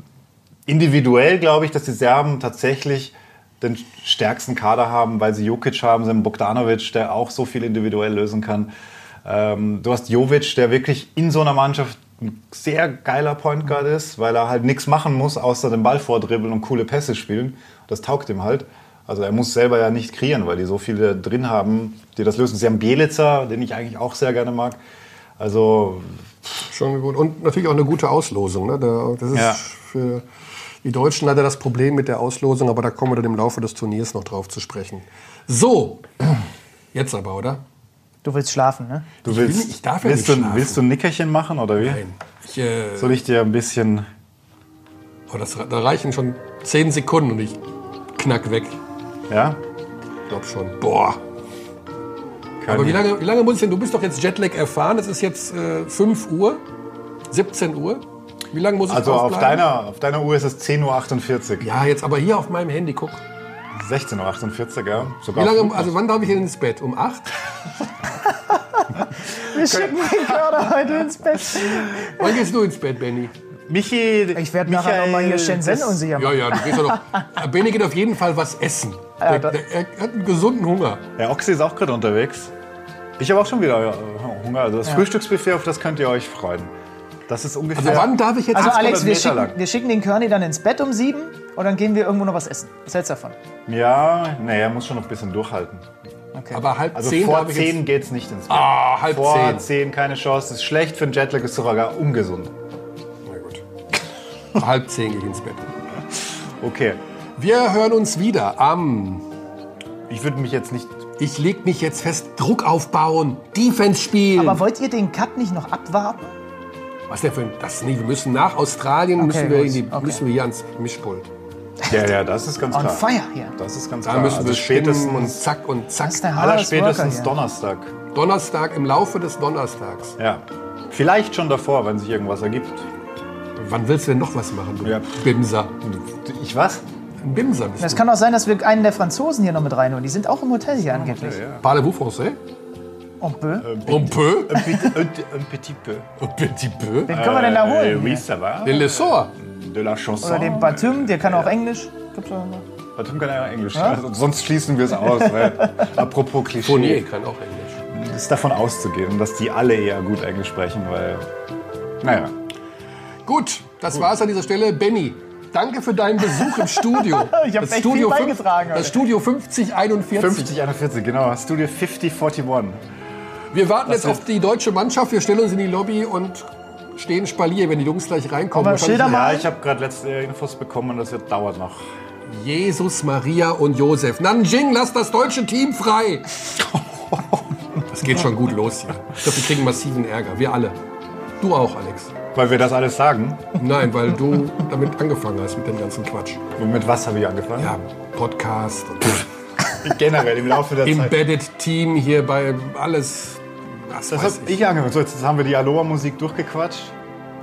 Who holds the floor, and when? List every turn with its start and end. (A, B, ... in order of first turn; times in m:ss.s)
0:00.6-0:08.7 A
0:09.2-0:24.8 A
0:25.4-0:26.6 A
0:26.7-0:30.2 B
0:29.3-0:29.6 A
0:30.8-0:36.4 B
0:36.9-0:37.6 B
0:38.2-0:39.1 C
0:39.2-0:42.0 A
0:39.2-0:40.8 B
0:41.8-0:43.2 B
0:43.0-0:44.1 A
0:45.3-0:47.6 B
0:48.1-0:48.8 B
0:49.3-0:49.6 A
0:50.3-0:51.2 B
0:52.6-0:53.0 A
0:52.6-0:56.6 B
0:57.3-0:59.7 B
0:58.9-1:01.7 A
1:01.6-1:03.2 B
1:03.7-1:06.0 A
1:05.3-1:07.3 B
1:08.5-1:12.3 C
1:12.0-1:13.3 B
1:13.7-1:16.0 A
1:14.3-1:17.0 C
1:16.2-1:21.0 B
1:19.2-1:19.5 C
1:21.2-1:22.5 A
1:23.2-1:26.7 A
1:27.3-1:29.6 A
1:27.7-1:29.2 B
1:28.5-1:33.4 C
1:33.7-1:35.9 A
1:36.3-1:36.6 C
1:36.5-1:37.8 B
1:36.9-1:42.5 A
1:38.5-1:39.7 B
1:43.2-1:43.6 B
1:44.6-1:45.7 B
1:46.6-1:47.0 A
1:47.4-1:49.2 B
1:50.1-1:51.1 A
1:51.2-1:54.6 B
1:54.3-1:56.3 C
1:57.1-2:01.3 B
1:59.2-2:00.2 C
2:01.9-2:05.4 A
2:02.7-2:03.5 C
2:04.0-2:06.3 B
2:06.0-2:07.4 C
2:06.4-2:07.9 A
2:08.1-2:10.2 B
2:10.2-2:12.9 A
2:13.6-2:15.7 B
2:14.8-2:15.1 A
2:15.8-2:16.8 A
2:17.2-2:18.0 B
2:17.8-2:21.4 C
2:20.8-2:21.6 A
2:21.6-2:22.4 B
2:23.2-2:23.8 C
2:23.6-2:26.1 A
2:23.8-2:24.9 B
2:26.2-2:27.2 B
2:27.1-2:28.2 C
2:27.1-2:31.5 A
2:28.6-2:29.3 B
2:30.2-2:32.6 C
2:33.0-2:37.0 A
2:36.6-2:37.8 B
2:37.9-2:41.2 A
2:42.0-2:42.4 A
2:43.2-2:50.6 B
2:47.0-2:49.0 C
2:50.1-2:52.8 A
2:53.5-2:59.2 B
2:58.5-2:59.5 C
2:59.0-3:01.9 A
3:02.3-3:06.3 B
3:06.6-3:07.5 A
3:07.9-3:10.8 B
3:11.4-3:12.1 B
3:12.3-3:13.5 A
3:13.6-3:16.4 B
3:16.6-3:17.8 A
3:17.6-3:19.3 B
3:19.8-3:21.2 A
3:20.8-3:24.6 B
3:24.1-3:26.9 A